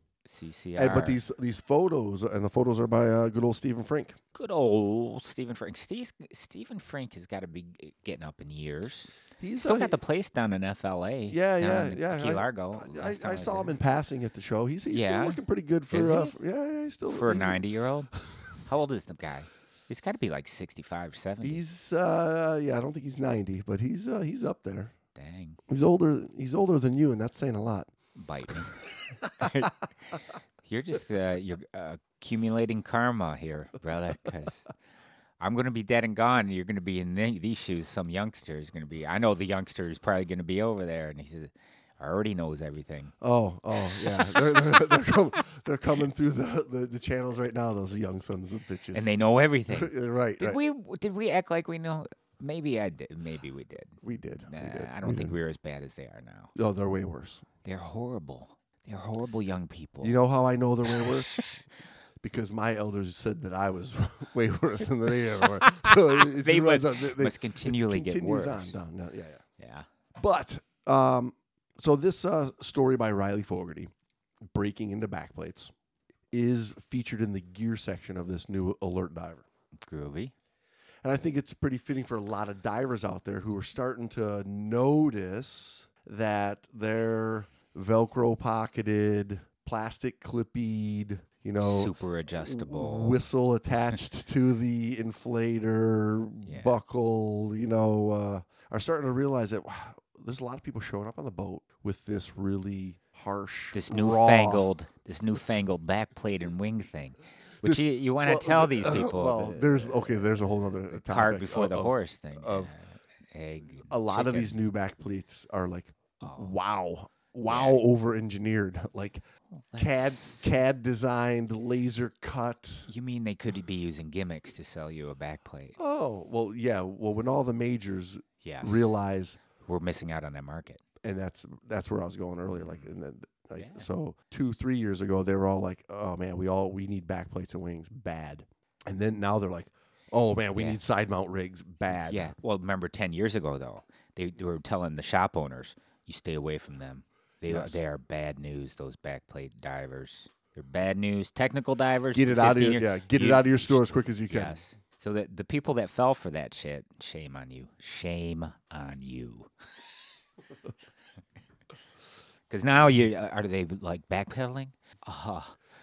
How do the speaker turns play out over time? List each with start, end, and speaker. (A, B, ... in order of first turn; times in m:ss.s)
0:00.2-0:01.2 A
0:00.8-0:04.2 B
0:04.3-0:13.8 A
0:09.4-0:10.0 B
0:11.3-0:17.6 B
0:14.9-0:15.4 A
0:15.9-0:16.3 A
0:17.1-0:18.1 A
0:18.6-0:21.6 A
0:21.4-0:24.9 B
0:25.1-0:25.6 A
0:25.7-0:27.9 B
0:28.1-0:34.6 A
0:35.4-0:43.1 A
0:43.2-0:49.1 B
0:44.0-0:45.0 A
0:48.9-0:56.5 A
0:49.7-0:50.6 B
0:54.0-0:55.4 B
0:56.5-0:57.4 B
0:57.6-1:00.2 A
1:00.0-1:01.6 B
1:00.9-1:01.4 A
1:02.2-1:09.4 B
1:05.4-1:08.8 A
1:09.6-1:09.9 A
1:10.2-1:13.9 B
1:14.5-1:15.7 B
1:16.3-1:19.4 B
1:19.8-1:20.3 A
1:21.0-1:44.7 B
1:31.6-1:33.2 A
1:36.4-1:36.8 A
1:43.7-1:54.5 A
1:47.6-1:52.7 B
1:53.9-1:59.2 B
1:56.2-1:56.5 A
1:57.5-1:57.8 A
1:59.5-2:00.5 A
1:59.8-2:02.9 B
2:02.9-2:05.8 A
2:05.8-2:09.4 B
2:08.4-2:08.9 A
2:09.6-2:10.8 A
2:11.0-2:22.3 B
2:12.6-2:12.9 A
2:13.6-2:13.8 A
2:21.9-2:39.5 A
2:27.5-2:27.8 B
2:32.1-2:34.6 B
2:42.5-2:45.6 A